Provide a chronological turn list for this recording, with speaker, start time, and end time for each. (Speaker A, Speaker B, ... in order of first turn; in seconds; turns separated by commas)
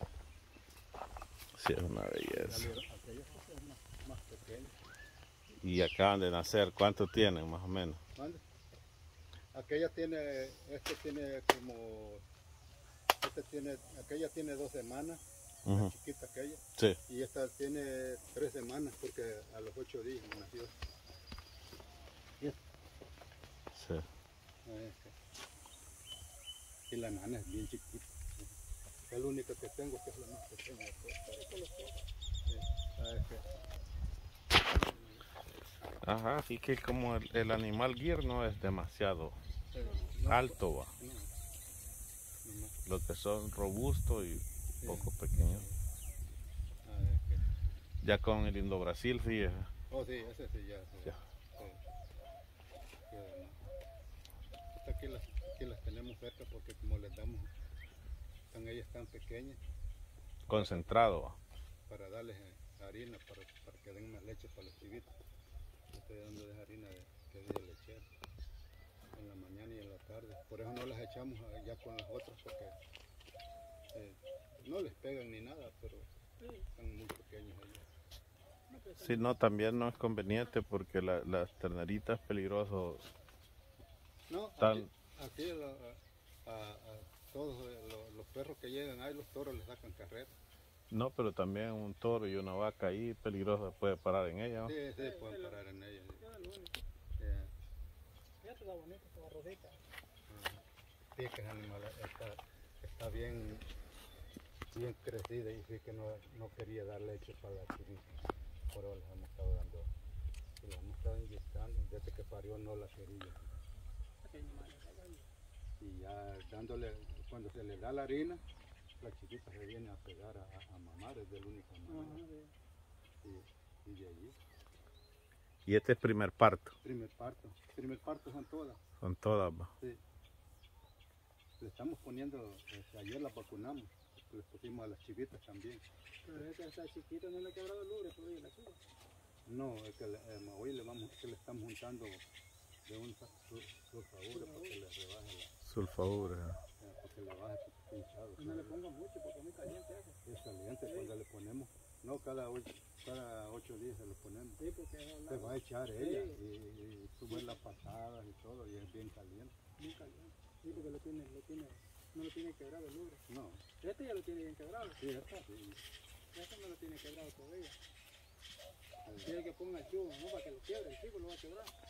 Speaker A: 1.5-2.7, Speaker B: 2.3-4.7, Speaker A: 5.6-8.0, Speaker B: 8.2-8.4, Speaker B: 9.5-12.2, Speaker B: 13.2-20.7, Speaker A: 15.7-15.9, Speaker A: 23.7-24.0, Speaker B: 24.6-25.1, Speaker B: 26.9-28.5, Speaker B: 29.1-31.3, Speaker C: 31.2-32.0, Speaker B: 32.5-33.5, Speaker B: 34.7-35.2, Speaker A: 36.0-39.4, Speaker B: 39.7-41.3, Speaker A: 40.2-40.9, Speaker B: 42.4-42.8, Speaker A: 42.9-45.6, Speaker B: 44.8-45.8, Speaker B: 46.8-47.4, Speaker A: 48.0-49.7, Speaker B: 49.9-51.8, Speaker B: 53.1-53.6, Speaker B: 54.7-57.5, Speaker B: 58.5-59.6, Speaker A: 60.5-61.4, Speaker B: 60.5-61.0, Speaker B: 61.9-65.1, Speaker B: 65.9-68.1, Speaker B: 69.1-72.8, Speaker B: 73.9-76.1, Speaker B: 76.8-77.8, Speaker C: 78.7-79.3, Speaker A: 79.0-83.0, Speaker B: 84.3-90.3, Speaker A: 84.6-84.9, Speaker A: 90.9-94.7, Speaker B: 94.6-96.2, Speaker C: 95.0-95.6, Speaker C: 96.2-96.8, Speaker B: 97.2-97.5, Speaker C: 98.4-99.8, Speaker B: 100.3-100.6, Speaker B: 101.1-103.7, Speaker B: 104.7-108.1, Speaker B: 108.7-109.9, Speaker B: 110.6-113.5, Speaker C: 114.2-115.3, Speaker B: 115.8-118.4, Speaker B: 119.0-122.2, Speaker C: 121.9-122.5, Speaker B: 123.2-124.3, Speaker A: 125.7-126.7, Speaker B: 126.8-128.8, Speaker A: 129.0-129.7, Speaker B: 131.6-135.8, Speaker C: 136.2-138.8, Speaker B: 139.4-142.2, Speaker B: 142.8-145.5, Speaker C: 144.3-144.7, Speaker A: 145.6-146.6, Speaker B: 146.8-148.8, Speaker C: 148.4-150.2, Speaker B: 150.2-154.6, Speaker C: 150.8-151.1, Speaker C: 154.6-156.4, Speaker B: 155.3-159.5, Speaker C: 159.8-163.2, Speaker B: 163.3-163.6, Speaker C: 163.8-165.0, Speaker B: 164.8-165.8, Speaker C: 166.3-167.8, Speaker B: 169.1-169.4, Speaker C: 169.2-171.7